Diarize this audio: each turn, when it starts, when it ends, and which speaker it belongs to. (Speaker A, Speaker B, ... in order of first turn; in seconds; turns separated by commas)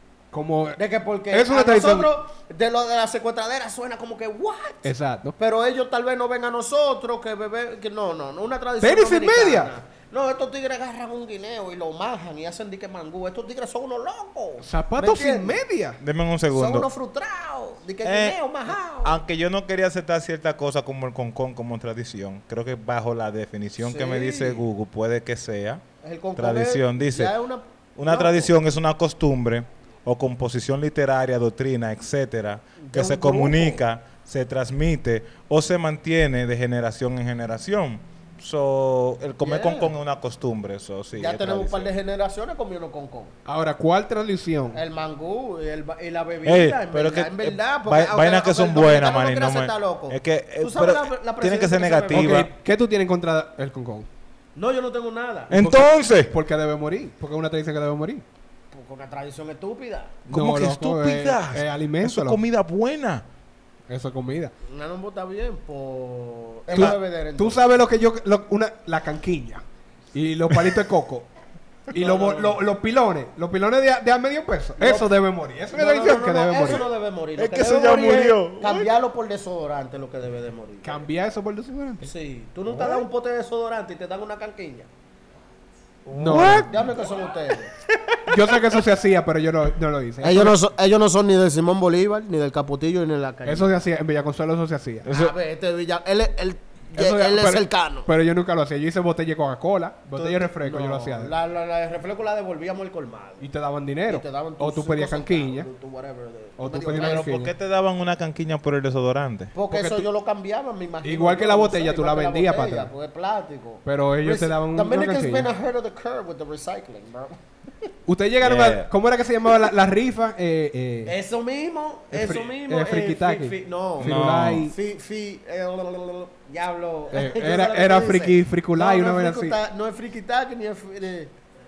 Speaker A: 0.3-0.8, Speaker B: 0.8-15.6, Speaker A: 1.3-2.1, Speaker A: 4.8-5.3, Speaker A: 8.8-9.7, Speaker A: 14.6-16.0, Speaker C: 16.0-16.9, Speaker B: 16.5-19.2, Speaker C: 18.0-18.4, Speaker C: 19.0-25.8, Speaker B: 23.8-24.6, Speaker B: 26.0-28.6, Speaker C: 26.4-27.3, Speaker C: 28.0-41.9, Speaker B: 32.8-33.8, Speaker B: 39.4-39.9, Speaker B: 41.2-43.4, Speaker A: 43.5-44.8, Speaker B: 44.7-52.4, Speaker C: 46.4-52.5, Speaker A: 52.1-54.1, Speaker B: 54.6-55.5, Speaker C: 55.5-56.3, Speaker A: 55.5-58.2, Speaker B: 58.7-60.2, Speaker C: 60.3-63.3, Speaker A: 60.3-62.4, Speaker A: 63.9-64.5, Speaker B: 64.6-67.6, Speaker A: 66.7-71.3, Speaker A: 71.9-76.8, Speaker B: 72.0-72.6, Speaker B: 74.8-75.1, Speaker B: 75.7-81.0, Speaker C: 77.4-78.9, Speaker A: 80.8-82.1, Speaker B: 82.0-84.9, Speaker C: 82.7-83.1, Speaker C: 86.1-87.0, Speaker A: 86.2-86.7, Speaker B: 86.7-87.7, Speaker C: 87.9-88.4, Speaker A: 88.3-90.6, Speaker B: 90.2-93.7, Speaker A: 93.5-95.1, Speaker C: 95.0-95.3, Speaker B: 95.1-98.1, Speaker A: 96.9-101.3, Speaker B: 100.2-103.5, Speaker A: 103.4-105.7, Speaker B: 104.1-107.3, Speaker A: 106.6-107.5, Speaker C: 107.0-109.5, Speaker B: 109.5-117.4, Speaker A: 109.7-110.1, Speaker A: 111.0-112.9, Speaker A: 113.8-115.5, Speaker A: 118.1-121.1, Speaker C: 118.4-118.9, Speaker B: 121.1-124.2, Speaker A: 122.1-124.8, Speaker C: 124.0-124.7, Speaker B: 124.7-131.3, Speaker A: 127.1-129.6